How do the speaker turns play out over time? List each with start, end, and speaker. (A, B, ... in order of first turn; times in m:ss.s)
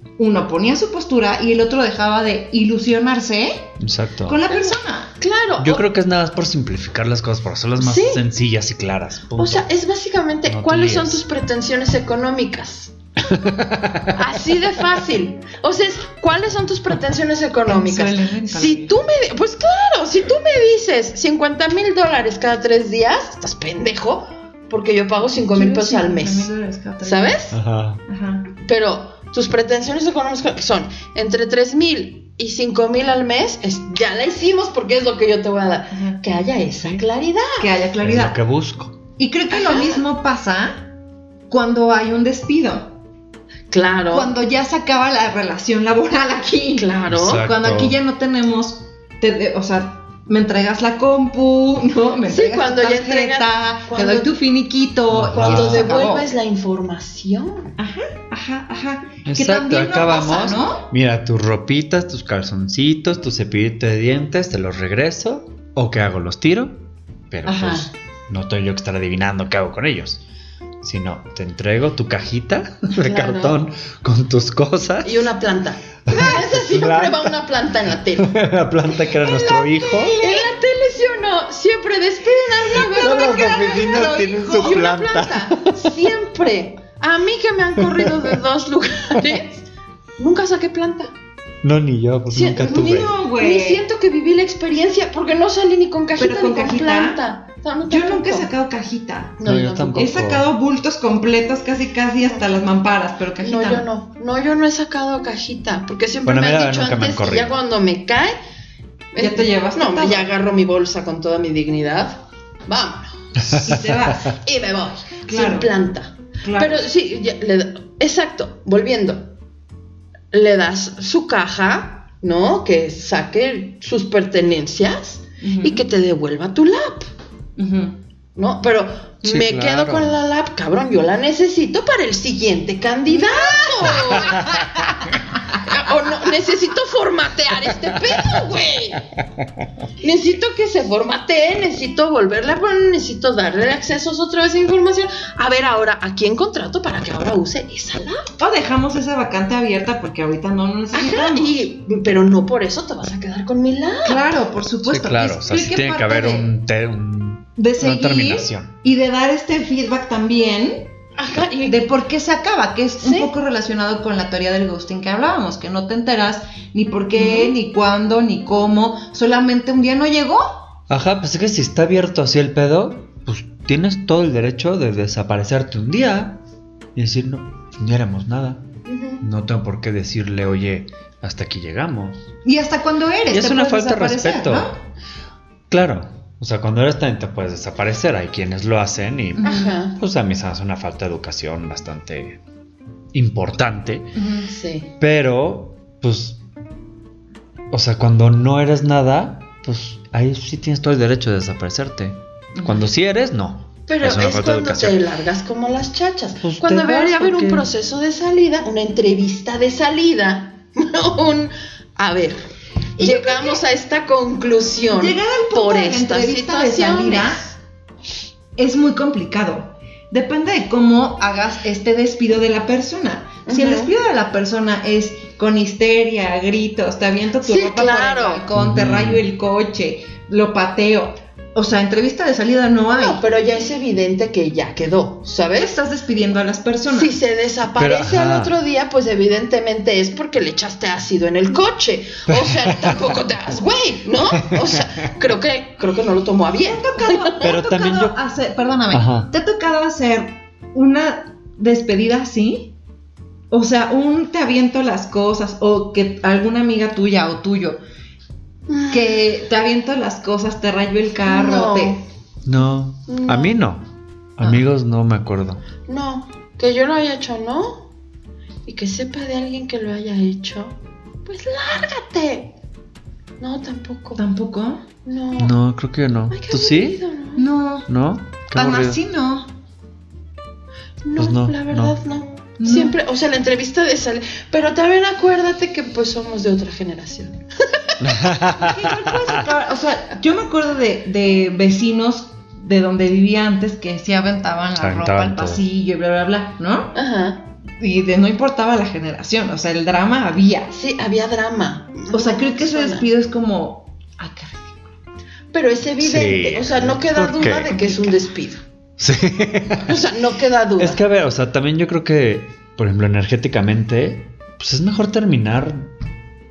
0:00.2-0:03.7 A
0:03.8-0:04.4 B
0:04.3-0:05.1 A
0:04.5-0:05.8 C
0:05.6-0:09.7 B
0:07.8-0:08.2 C
0:09.4-0:12.9 C
0:10.5-0:11.2 B
0:13.2-0:14.3 B
0:14.1-0:26.5 C
0:17.7-0:19.0 A
0:25.4-0:27.4 A
0:27.0-0:27.6 C
0:27.5-0:28.0 B
0:28.1-0:28.5 A
0:28.6-0:37.7 C
0:35.9-0:36.2 A
0:37.6-0:38.4 A
0:38.0-0:39.0 B
0:39.2-0:40.9 A
0:39.5-0:40.0 C
0:41.5-0:43.0 A
0:43.7-0:44.3 C
0:44.1-0:56.3 A
0:46.8-0:47.5 C
0:47.1-0:48.0 B
0:52.3-0:54.4 C
0:55.1-0:55.9 B
0:55.3-0:57.8 C
0:57.8-1:00.9 A
0:59.3-1:10.2 B
1:07.5-1:07.9 A
1:10.8-1:15.3 B
1:12.9-1:13.6 C
1:15.0-1:18.3 C
1:16.1-1:17.3 B
1:18.2-1:20.2 B
1:19.0-1:29.7 C
1:20.1-1:20.5 A
1:22.7-1:26.0 B
1:23.4-1:24.9 A
1:27.8-1:28.3 B
1:30.2-1:31.1 C
1:31.6-1:33.1 B
1:32.3-1:38.5 C
1:32.6-1:33.8 A
1:36.2-1:37.2 A
1:37.9-1:39.4 A
1:39.4-1:40.1 C
1:39.4-1:40.5 B
1:40.0-1:43.9 A
1:43.4-1:48.4 C
1:46.2-1:47.5 B
1:49.1-1:53.2 C
1:49.2-1:50.3 A
1:53.4-1:54.1 B
1:53.6-1:54.4 A
1:54.3-1:59.3 C
1:55.3-1:55.7 A
1:56.4-1:56.8 A
2:00.3-2:07.1 C
2:05.4-2:05.8 A
2:07.6-2:08.0 A
2:08.4-2:19.0 C
2:09.2-2:10.2 B
2:13.1-2:14.7 A
2:13.9-2:14.6 B
2:20.0-2:28.3 C
2:28.4-2:31.7 A
2:30.9-2:34.2 C
2:34.0-2:36.5 A
2:34.8-2:38.7 B
2:37.6-2:40.9 A
2:41.2-2:41.9 C
2:41.7-2:50.5 A
2:43.0-2:43.3 C
2:47.2-2:47.6 C
2:50.9-2:56.4 B
2:57.0-2:58.6 B
2:58.9-2:59.2 C
2:59.2-3:02.2 B
3:02.4-3:04.8 A
3:03.3-3:04.8 B
3:05.7-3:12.4 B
3:09.4-3:09.7 A
3:09.4-3:10.0 C
3:13.1-3:14.2 B
3:14.2-3:14.5 A
3:14.5-3:14.9 C
3:15.0-3:16.4 B
3:17.7-3:25.0 B
3:22.6-3:22.9 A
3:23.9-3:37.6 C
3:26.4-3:27.7 B
3:33.0-3:33.6 A
3:34.9-3:37.4 A
3:38.6-3:53.2 A
3:43.5-3:43.9 C
3:47.4-3:48.4 C
3:48.6-3:49.2 B
3:52.9-3:55.8 C
3:55.6-3:57.2 A
3:56.9-4:07.5 C
3:57.8-3:58.6 B
4:02.3-4:03.0 B
4:04.4-4:04.8 B
4:06.6-4:12.7 A
4:07.4-4:08.2 B
4:08.9-4:09.3 B
4:13.5-4:17.8 A
4:18.7-4:19.3 C
4:18.9-4:22.0 A
4:21.3-4:22.0 C
4:22.4-4:23.9 B
4:23.1-4:23.6 C
4:24.4-4:25.6 B
4:25.9-4:27.9 C
4:28.7-4:32.5 C
4:33.4-4:34.2 C
4:34.2-4:34.8 A
4:35.0-4:35.6 C
4:35.4-4:37.0 B
4:36.3-4:37.5 C
4:37.4-4:37.9 A
4:37.9-4:39.0 B
4:38.5-4:39.5 A
4:41.0-4:48.0 C
4:41.2-4:42.0 B
4:42.6-4:43.0 A
4:48.0-4:49.4 B
4:48.5-4:57.0 A
4:54.8-4:55.6 B
4:57.0-4:57.4 C
4:57.8-5:00.7 A
5:00.7-5:03.1 C
5:02.1-5:04.9 A
5:05.5-5:08.6 C
5:06.0-5:07.7 B
5:07.7-5:08.1 A
5:09.0-5:10.0 B
5:09.8-5:11.0 C
5:10.8-5:15.9 B